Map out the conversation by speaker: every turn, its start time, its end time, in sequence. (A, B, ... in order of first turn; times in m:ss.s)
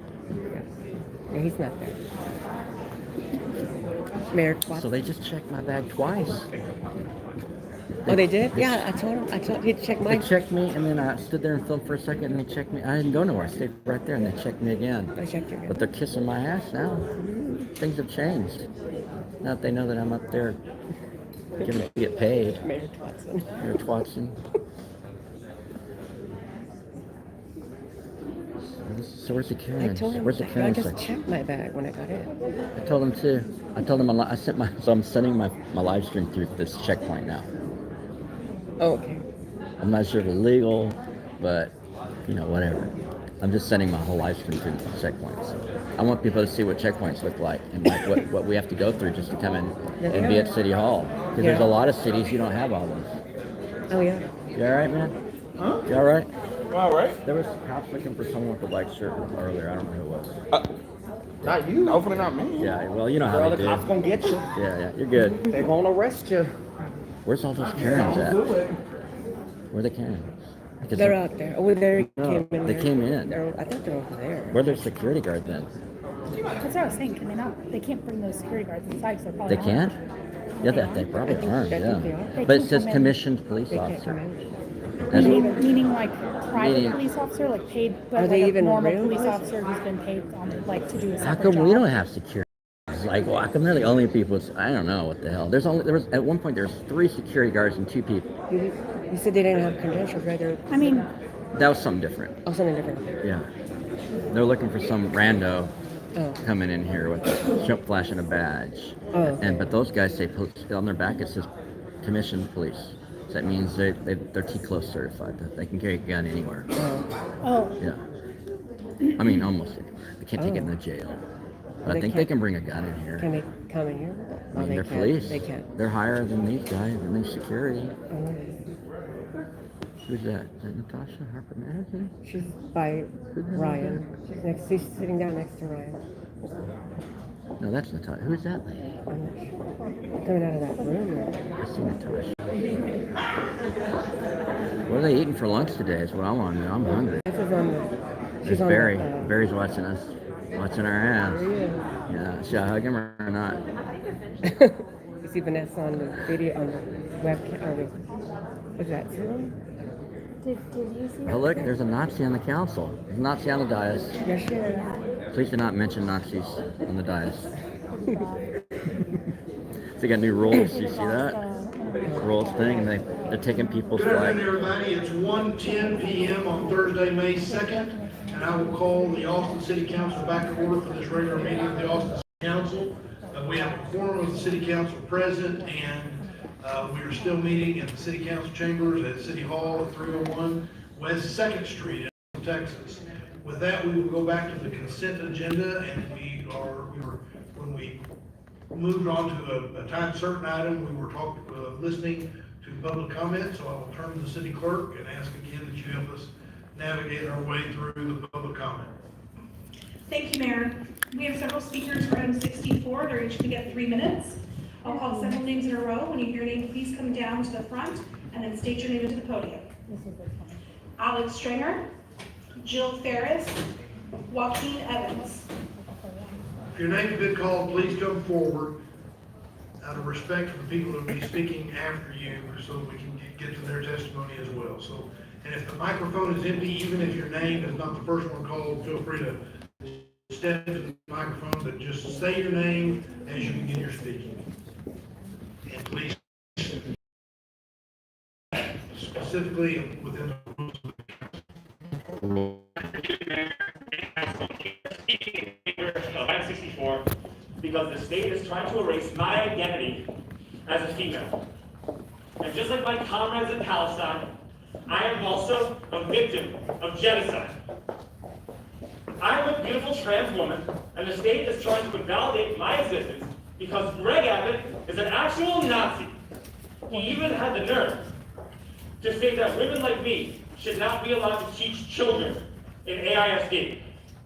0:01.3-0:02.0 A
0:04.3-0:04.9 A
0:04.7-0:06.5 B
0:08.1-0:08.8 B
0:08.1-0:10.3 A
0:10.1-0:15.2 B
0:15.2-0:15.8 A
0:15.7-0:17.1 B
0:17.2-0:17.6 A
0:17.7-0:18.6 B
0:19.4-0:20.6 B
0:21.6-0:22.6 B
0:22.6-0:23.6 A
0:23.6-0:24.4 B
0:28.8-0:31.0 B
0:29.8-0:32.4 A
0:32.8-0:37.5 B
0:38.8-0:39.2 A
0:39.8-0:41.7 B
0:42.3-0:53.2 B
0:50.0-0:50.5 A
0:51.4-0:51.7 A
0:53.9-0:54.3 A
0:54.5-0:55.2 B
0:55.8-0:56.3 B
0:56.7-0:57.2 C
0:57.2-1:00.4 B
1:01.4-1:02.7 C
1:02.6-1:03.9 B
1:03.3-1:04.5 C
1:04.5-1:05.6 B
1:05.5-1:06.5 C
1:07.2-1:08.5 B
1:07.6-1:08.8 C
1:09.7-1:11.2 B
1:11.0-1:14.9 A
1:12.0-1:13.4 B
1:14.5-1:15.7 B
1:16.6-1:19.9 D
1:19.5-1:20.0 B
1:20.6-1:21.2 D
1:20.6-1:24.2 B
1:21.3-1:22.5 A
1:22.4-1:23.2 D
1:23.7-1:24.5 A
1:25.1-1:25.5 B
1:25.1-1:31.9 D
1:25.2-1:25.5 A
1:26.6-1:27.0 B
1:28.2-1:29.5 A
1:31.2-1:38.3 B
1:38.5-1:40.9 A
1:40.7-1:41.1 D
1:41.5-1:42.4 B
1:42.4-1:43.1 A
1:43.2-1:43.5 B
1:44.3-1:45.7 B
1:46.2-1:46.4 A
1:46.4-1:51.5 B
1:49.1-1:49.7 A
1:52.0-1:56.7 B
1:56.8-1:57.1 A
1:57.4-1:57.8 D
1:59.1-2:01.2 B
2:00.4-2:00.7 A
2:01.8-2:02.3 A
2:01.8-2:03.3 B
2:03.2-2:05.7 A
2:04.5-2:07.9 B
2:08.1-2:08.6 A
2:10.0-2:12.1 B
2:12.2-2:16.0 A
2:13.3-2:14.0 B
2:17.6-2:19.0 B
2:19.1-2:19.5 A
2:20.2-2:21.4 A
2:21.6-2:22.4 B
2:24.9-2:27.2 B
2:26.8-2:29.3 A
2:28.4-2:31.5 B
2:31.2-2:31.8 A
2:32.1-2:33.6 B
2:34.5-2:38.0 A
2:38.8-2:39.6 A
2:40.7-2:41.1 D
2:41.2-2:44.2 B
2:44.2-2:44.9 A
2:45.3-2:47.5 B
2:50.0-2:51.4 B
2:51.0-2:53.0 D
2:52.1-2:54.4 B
2:54.0-3:18.0 E
3:18.7-3:28.9 E
3:30.1-3:39.7 F
3:39.9-3:40.6 D
3:41.0-3:41.9 F
3:42.6-3:43.7 F
3:44.3-3:45.5 F
3:46.7-3:48.8 E
3:49.8-4:04.4 E
4:05.7-4:06.8 E
4:08.9-4:11.2 E
4:12.8-4:17.0 G
4:17.6-4:20.1 G
4:20.7-4:21.4 G
4:22.4-4:24.3 G
4:24.9-4:27.5 G
4:29.2-4:36.1 G
4:36.9-4:38.1 G
4:39.0-4:43.8 G